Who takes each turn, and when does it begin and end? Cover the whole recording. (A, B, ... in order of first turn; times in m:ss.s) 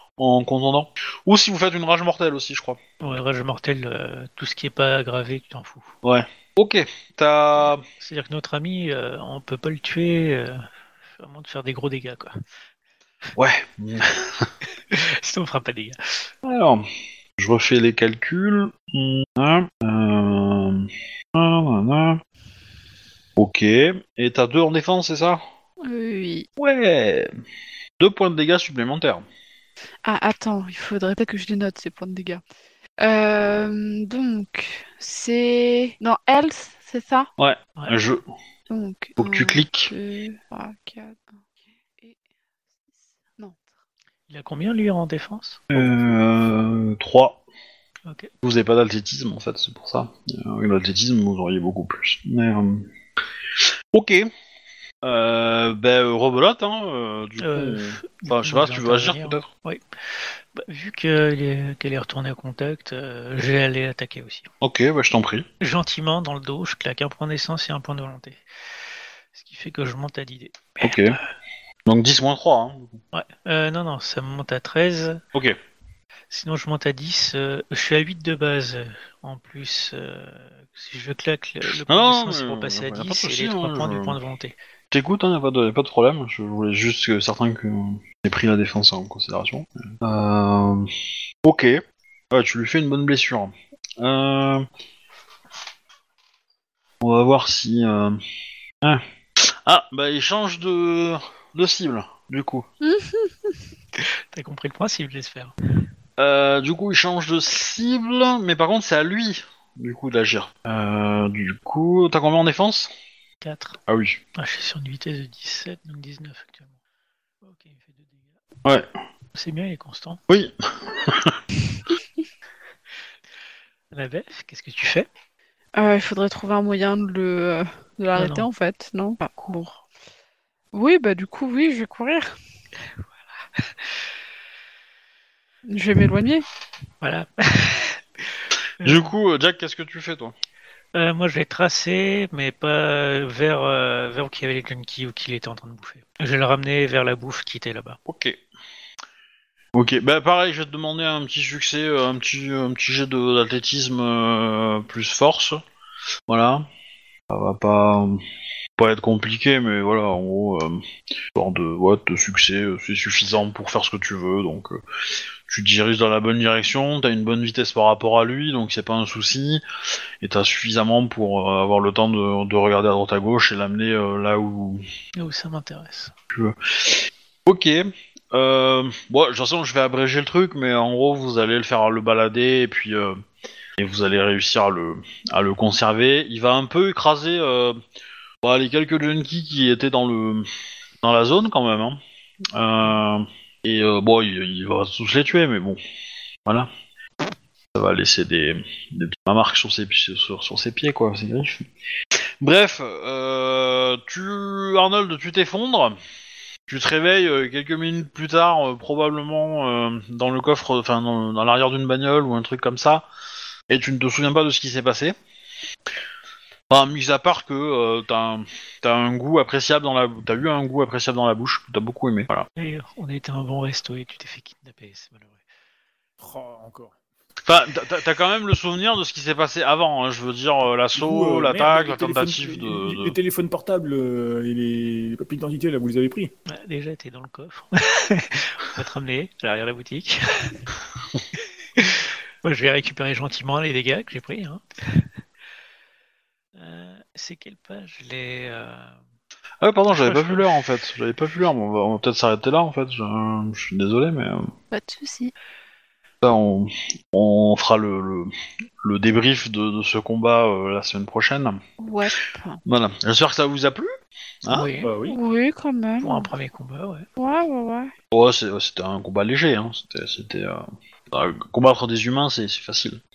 0:00.2-0:02.8 A
0:03.0-0:05.9 B
0:06.0-0:07.8 A
0:07.6-0:10.6 B
0:11.2-0:12.4 B
0:13.4-0:14.5 A
0:14.9-0:16.3 B
0:16.4-0:16.8 A
0:17.4-0:22.2 A
0:23.4-0:25.4 A
0:25.8-0:26.5 C
0:26.6-0:27.3 A
0:28.0-0:29.2 A
0:30.0-0:32.4 C
0:33.0-0:37.3 C
0:37.4-0:38.2 A
0:38.7-0:41.2 C
0:39.2-0:39.9 A
0:44.3-0:46.2 B
0:45.7-0:47.4 A
0:48.0-0:48.3 B
0:48.4-0:52.9 A
0:53.9-0:54.3 A
0:55.0-0:59.5 A
0:57.4-1:04.5 B
1:04.6-1:05.4 A
1:05.6-1:08.4 B
1:09.3-1:11.2 B
1:10.8-1:11.2 A
1:11.8-1:13.0 A
1:13.1-1:15.2 B
1:16.3-1:24.6 B
1:21.7-1:24.2 A
1:24.9-1:30.9 A
1:31.4-1:31.8 A
1:32.3-1:34.6 A
1:37.0-1:38.2 A
1:38.8-1:42.6 A
1:42.8-1:43.5 C
1:44.0-1:45.5 B
1:46.2-1:52.9 A
1:53.4-1:53.8 B
1:53.9-1:54.2 A
1:54.3-1:56.7 B
1:57.4-1:58.3 B
1:59.3-2:00.2 B
2:00.3-2:01.4 A
2:03.9-2:05.1 B
2:05.8-2:09.8 C
2:08.1-2:08.5 B
2:10.7-2:12.3 C
2:15.7-2:16.5 C
2:17.0-2:19.1 B
2:18.8-2:20.3 A
2:20.9-2:28.0 B
2:28.1-2:28.4 A
2:29.7-2:35.6 A
2:36.3-2:36.6 A
2:37.3-2:38.2 A
2:38.8-2:40.8 A
2:41.3-2:44.8 A
2:45.5-2:49.6 A
2:50.2-2:54.8 A
2:55.2-2:56.1 B
2:56.3-3:03.2 A
3:03.8-3:07.8 A
3:08.4-3:10.5 A
3:11.0-3:12.0 A
3:12.5-3:15.8 A
3:17.7-3:21.6 A
3:22.4-3:26.0 A
3:26.7-3:33.0 A
3:33.7-3:35.1 A
3:36.7-3:42.4 A
3:42.6-3:45.3 B
3:46.2-3:46.9 D
3:47.5-3:53.2 A
3:50.9-3:56.3 D
3:56.5-4:00.6 B
4:01.4-4:04.6 B
4:06.6-4:08.9 B
4:09.6-4:14.5 A
4:10.0-4:10.6 B
4:14.7-4:15.3 C
4:16.2-4:21.6 A
4:21.8-4:22.6 C
4:22.6-4:23.9 A
4:24.5-4:24.9 B
4:24.8-4:25.2 D
4:25.0-4:26.3 C
4:26.0-4:27.1 B
4:27.2-4:27.9 C
4:28.1-4:33.0 A